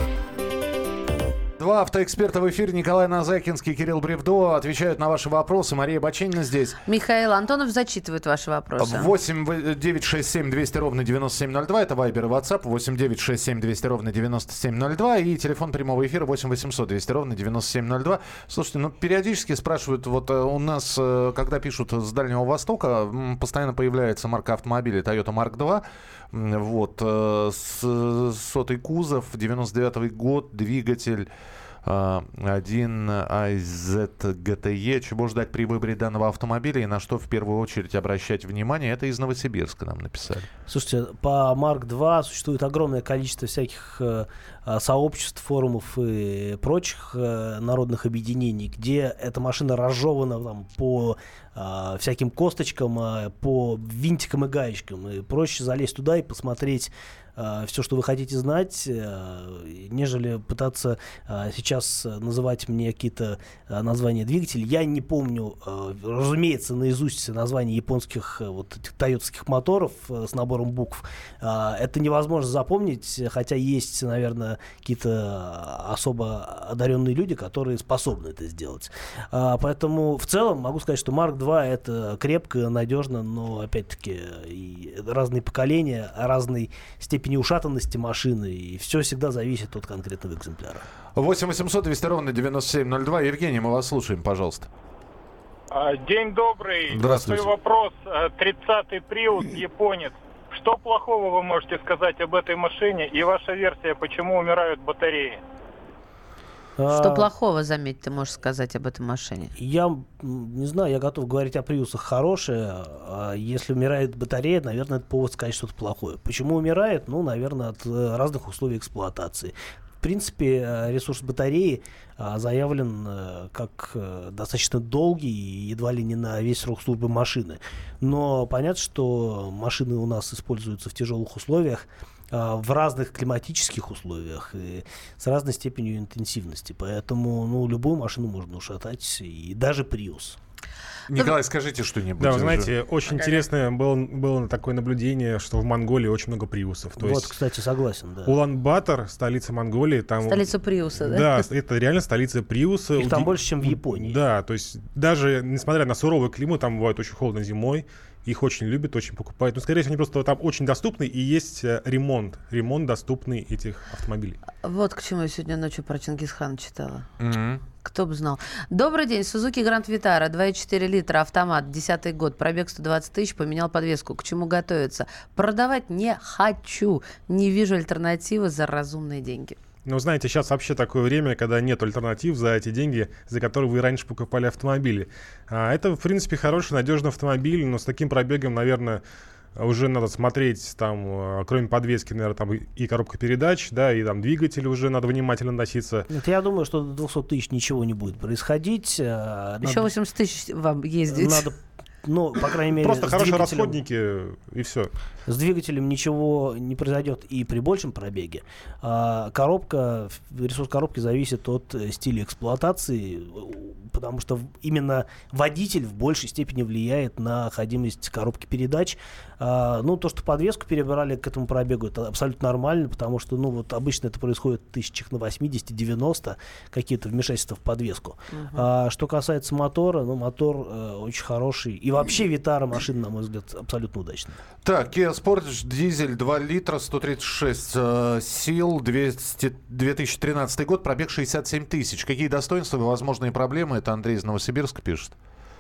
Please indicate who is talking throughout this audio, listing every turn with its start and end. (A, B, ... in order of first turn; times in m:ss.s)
0:01.6-0:06.8 A
0:06.9-0:09.1 B
0:08.8-0:31.3 A
0:31.8-0:40.5 A
0:40.7-1:30.8 C
1:31.2-1:34.7 A
1:35.7-1:45.4 D
1:36.9-1:37.5 A
1:46.8-1:47.3 C
1:46.9-1:49.5 B
1:49.6-2:20.4 C
2:21.1-2:22.7 A
2:22.2-2:27.3 E
2:23.1-2:23.4 B
2:27.0-2:28.4 C
2:28.3-2:44.4 E
2:30.3-2:31.4 B
2:33.0-2:34.2 C
2:44.6-2:47.1 B
2:47.2-2:47.6 A
2:47.8-2:59.6 B
2:59.9-3:09.0 E
3:09.6-3:16.1 E
3:16.1-3:19.9 C
3:19.6-3:21.5 B
3:21.1-3:23.8 C
3:22.8-3:24.9 E
3:25.3-3:54.4 C
3:48.3-3:48.7 B
3:54.6-4:05.1 A